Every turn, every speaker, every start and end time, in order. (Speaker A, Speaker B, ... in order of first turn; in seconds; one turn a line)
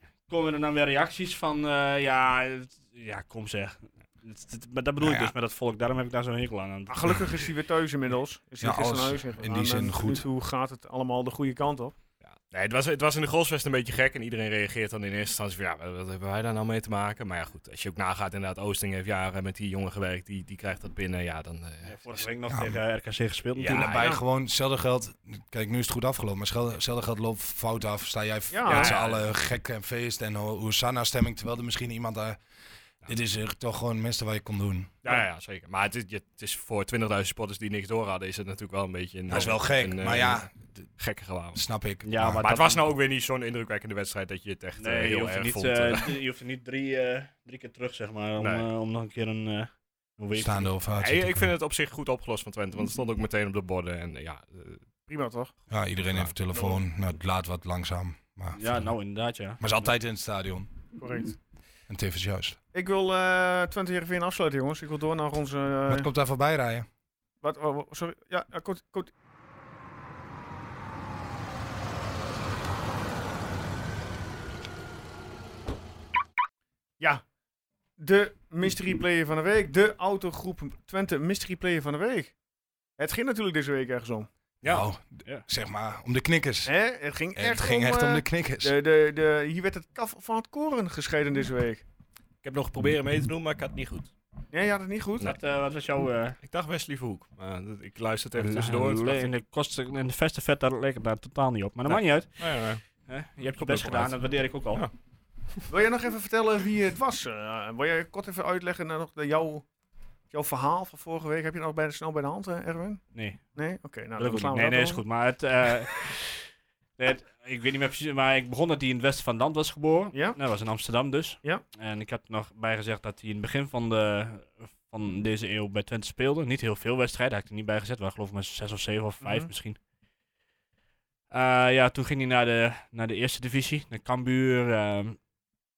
Speaker A: 0.3-7.2
Speaker B: 5.0-5.3
Speaker C: 6.9-11.9
Speaker B: 8.6-10.2
Speaker D: 12.2-22.3
Speaker A: 21.8-23.9
Speaker B: 22.5-22.8
Speaker D: 23.6-24.0
Speaker B: 23.6-32.4
Speaker C: 23.9-24.2
Speaker C: 28.5-28.9
Speaker A: 28.7-29.2
Speaker B: 33.0-34.9
Speaker D: 35.0-41.6
Speaker B: 39.3-40.7
Speaker B: 41.5-42.4
Speaker A: 42.0-42.8
Speaker D: 42.4-46.2
Speaker A: 44.8-50.7
Speaker D: 48.4-48.7
Speaker B: 50.4-51.5
Speaker D: 51.0-54.8
Speaker C: 55.1-55.5
Speaker B: 55.7-58.9
Speaker A: 58.5-59.7
Speaker B: 59.6-60.7
Speaker C: 61.0-61.4
Speaker B: 61.9-62.6
Speaker C: 62.7-66.1
Speaker B: 65.9-66.9
Speaker C: 67.4-69.1
Speaker C: 78.0-82.3
Speaker C: 83.0-84.3
Speaker D: 84.6-84.9
Speaker B: 84.6-86.7
Speaker C: 86.7-91.8
Speaker B: 87.3-88.7
Speaker D: 92.4-94.1
Speaker C: 94.5-95.3
Speaker A: 95.2-96.4
Speaker D: 96.4-99.3
Speaker A: 98.3-104.9
Speaker D: 101.8-102.8
Speaker D: 103.6-104.9
Speaker C: 105.7-109.7
Speaker C: 110.3-115.0
Speaker A: 113.1-113.5
Speaker A: 114.2-129.8
Speaker C: 120.1-120.4
Speaker C: 129.2-129.5
Speaker A: 131.3-135.2